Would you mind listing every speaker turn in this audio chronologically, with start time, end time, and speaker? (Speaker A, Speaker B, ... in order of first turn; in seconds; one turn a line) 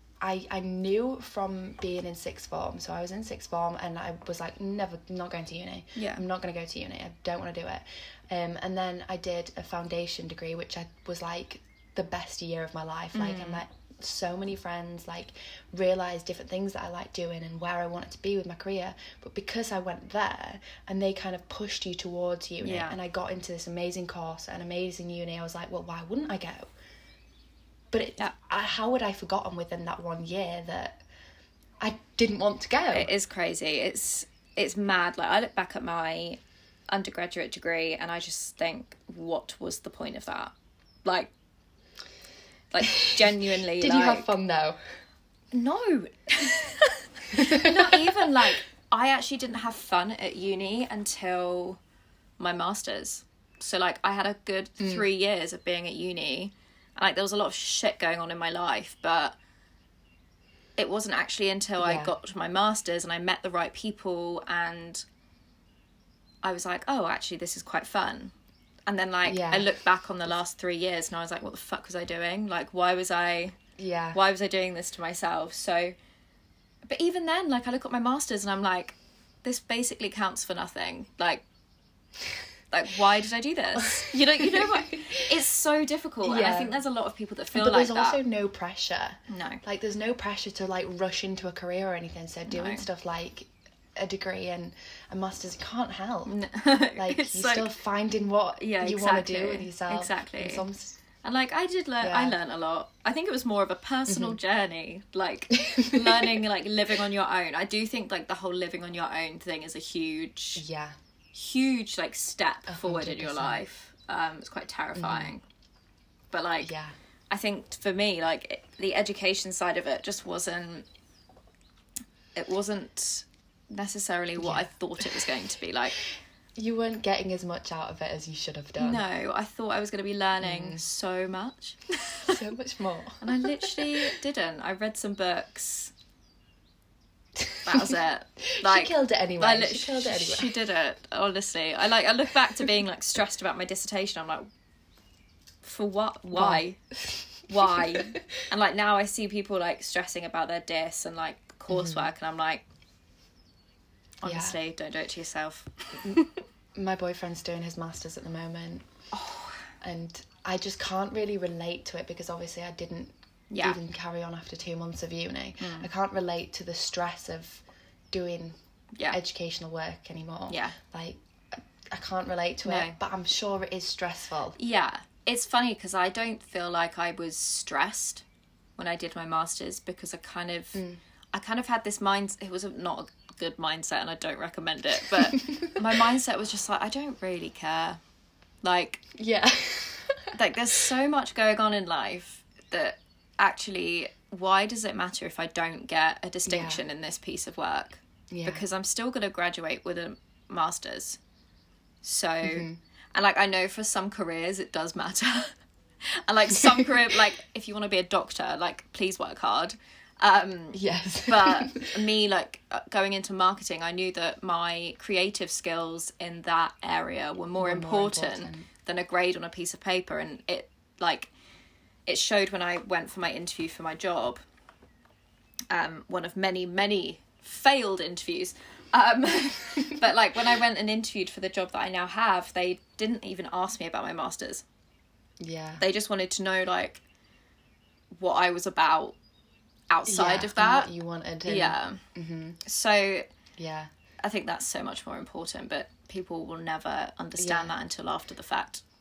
Speaker A: 0.2-26.7
Speaker B: 6.0-6.2
Speaker B: 13.1-13.6
Speaker B: 22.6-23.0
Speaker A: 27.9-31.0
Speaker A: 31.8-33.1
Speaker B: 32.9-40.5
Speaker B: 41.0-41.3
Speaker B: 42.7-44.3
Speaker A: 42.8-44.8
Speaker B: 45.5-51.8
Speaker A: 47.3-48.2
Speaker B: 52.4-59.4
Speaker A: 54.8-55.1
Speaker B: 60.8-65.0
Speaker A: 61.8-62.1
Speaker B: 66.4-68.3
Speaker B: 68.9-73.6
Speaker A: 69.2-69.7
Speaker A: 73.8-74.2
Speaker B: 74.1-76.0
Speaker B: 76.8-81.4
Speaker B: 82.7-88.2
Speaker A: 83.8-85.3
Speaker A: 86.2-86.8
Speaker A: 87.5-96.3
Speaker B: 89.3-89.6
Speaker B: 92.5-92.9
Speaker B: 96.3-97.7
Speaker A: 97.0-101.0
Speaker B: 98.6-100.7
Speaker B: 101.2-110.6
Speaker A: 102.0-102.4
Speaker A: 104.1-104.4
Speaker A: 105.6-106.4
Speaker A: 110.5-110.9
Speaker B: 111.3-115.4
Speaker A: 112.7-113.6
Speaker A: 115.0-115.3
Speaker B: 116.3-116.7
Speaker A: 116.6-117.0
Speaker B: 117.3-120.9
Speaker B: 122.3-126.0
Speaker A: 124.4-125.2
Speaker A: 126.6-129.0
Speaker B: 128.8-132.4
Speaker A: 130.4-130.8
Speaker A: 132.3-134.1
Speaker B: 133.2-135.9
Speaker A: 137.4-140.6
Speaker B: 137.7-144.5
Speaker B: 145.6-146.8
Speaker A: 146.3-148.2
Speaker B: 147.5-152.7
Speaker A: 151.7-152.1
Speaker B: 154.2-156.3
Speaker A: 154.2-154.6
Speaker A: 156.8-158.9
Speaker B: 159.1-159.6
Speaker A: 159.8-168.6
Speaker B: 163.5-163.8
Speaker B: 165.6-165.9
Speaker A: 169.1-174.6
Speaker B: 170.5-170.8
Speaker B: 172.7-173.0
Speaker B: 174.6-178.2
Speaker B: 178.8-180.8
Speaker A: 180.7-181.0
Speaker B: 181.3-188.0
Speaker A: 185.3-185.8
Speaker B: 188.6-189.0
Speaker A: 189.2-190.4
Speaker B: 190.3-201.2
Speaker A: 196.5-196.8
Speaker A: 198.3-198.6
Speaker B: 202.0-221.3
Speaker A: 202.4-202.8
Speaker A: 210.7-211.9
Speaker A: 217.6-218.7
Speaker B: 222.1-224.4
Speaker B: 225.7-234.6
Speaker A: 235.4-235.8
Speaker B: 235.8-237.0
Speaker B: 238.2-239.2
Speaker B: 239.9-240.9
Speaker A: 240.1-242.6
Speaker B: 241.4-242.0
Speaker B: 242.6-243.3
Speaker A: 243.6-243.9
Speaker B: 244.2-248.8
Speaker A: 247.4-247.8